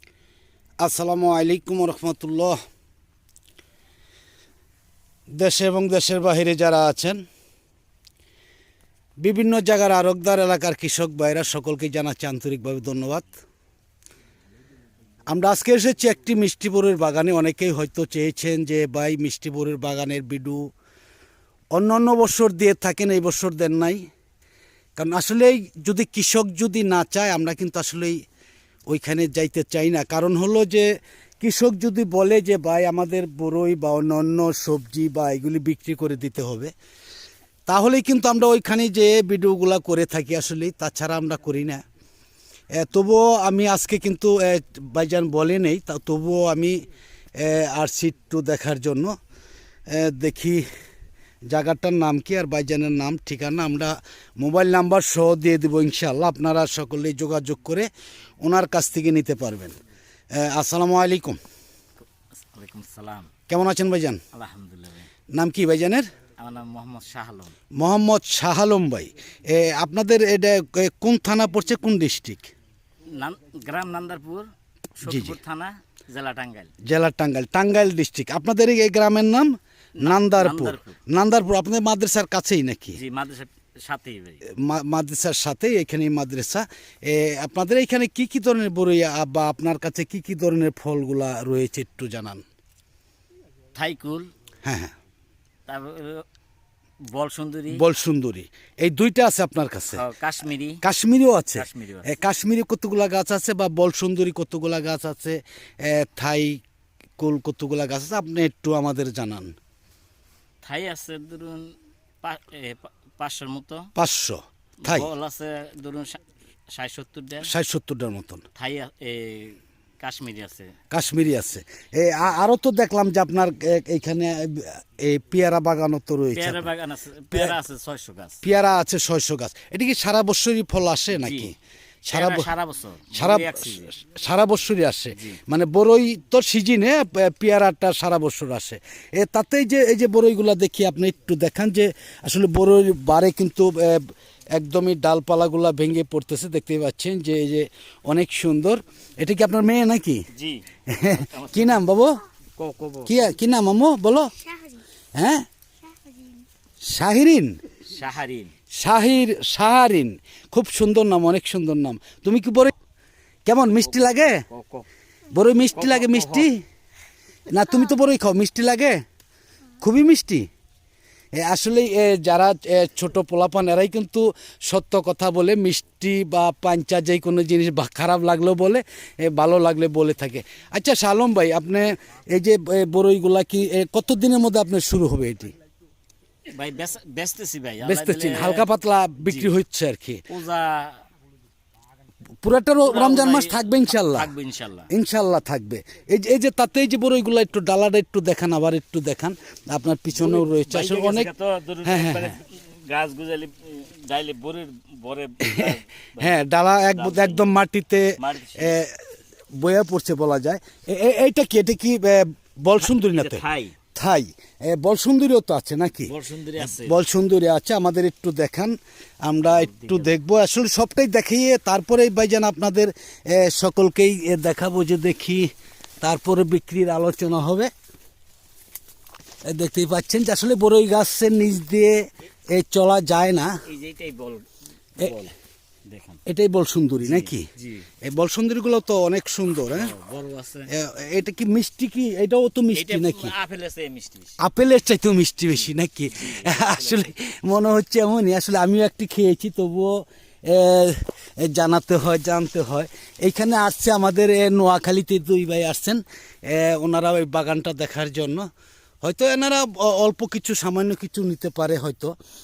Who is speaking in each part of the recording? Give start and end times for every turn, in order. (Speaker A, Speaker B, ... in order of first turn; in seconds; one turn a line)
Speaker A: 0.8-2.6
Speaker A: 5.3-7.2
Speaker A: 9.2-13.3
Speaker A: 15.3-20.7
Speaker A: 21.7-24.0
Speaker A: 25.0-28.2
Speaker A: 28.9-30.9
Speaker A: 31.4-36.7
Speaker A: 37.7-41.8
Speaker A: 42.8-46.8
Speaker A: 47.4-49.2
Speaker A: 49.9-50.6
Speaker A: 51.5-57.9
Speaker A: 58.4-59.7
Speaker A: 60.3-61.4
Speaker B: 62.4-63.3
Speaker A: 63.5-64.2
Speaker B: 64.3-65.1
Speaker A: 65.3-66.1
Speaker B: 66.4-67.5
Speaker A: 67.8-72.5
Speaker B: 73.1-76.7
Speaker A: 75.0-75.4
Speaker A: 76.8-83.0
Speaker B: 80.0-81.0
Speaker B: 82.9-84.4
Speaker A: 84.5-92.4
Speaker B: 93.8-94.3
Speaker A: 94.6-94.9
Speaker B: 95.7-96.2
Speaker B: 97.1-97.8
Speaker A: 97.7-100.0
Speaker B: 99.9-100.8
Speaker A: 100.8-106.6
Speaker B: 101.5-102.2
Speaker A: 107.2-109.5
Speaker B: 110.6-113.9
Speaker A: 114.0-115.1
Speaker B: 114.8-116.2
Speaker B: 116.7-117.5
Speaker A: 117.4-118.5
Speaker B: 118.6-120.7
Speaker A: 120.9-126.7
Speaker B: 126.3-128.4
Speaker A: 128.4-131.5
Speaker B: 131.1-131.5
Speaker A: 132.1-132.5
Speaker B: 132.1-133.9
Speaker A: 133.1-150.2
Speaker B: 135.1-135.4
Speaker B: 150.3-151.8
Speaker A: 150.9-152.2
Speaker B: 152.6-153.2
Speaker A: 153.1-154.3
Speaker A: 155.2-155.5
Speaker A: 156.8-157.6
Speaker B: 157.9-158.5
Speaker A: 158.7-162.7
Speaker A: 163.5-164.4
Speaker B: 163.8-164.9
Speaker A: 165.3-166.6
Speaker B: 165.7-166.5
Speaker A: 167.5-169.0
Speaker A: 169.8-170.5
Speaker A: 171.3-185.6
Speaker B: 186.5-188.7
Speaker A: 187.8-190.2
Speaker B: 189.3-189.5
Speaker B: 190.3-191.0
Speaker A: 192.4-194.3
Speaker B: 192.8-194.9
Speaker A: 194.9-201.3
Speaker B: 200.1-207.5
Speaker A: 201.8-202.4
Speaker A: 205.4-213.4
Speaker B: 208.2-208.8
Speaker B: 212.8-213.8
Speaker A: 213.9-225.5
Speaker B: 216.0-217.0
Speaker B: 219.5-220.1
Speaker A: 226.0-227.7
Speaker A: 229.5-233.6
Speaker B: 233.7-234.5
Speaker B: 235.0-235.3
Speaker B: 235.9-236.2
Speaker A: 236.3-237.5
Speaker B: 237.0-237.9
Speaker A: 238.0-239.9
Speaker B: 239.7-240.7
Speaker A: 240.7-243.3
Speaker B: 242.7-244.4
Speaker A: 244.4-258.5
Speaker B: 246.1-247.0
Speaker A: 259.0-262.1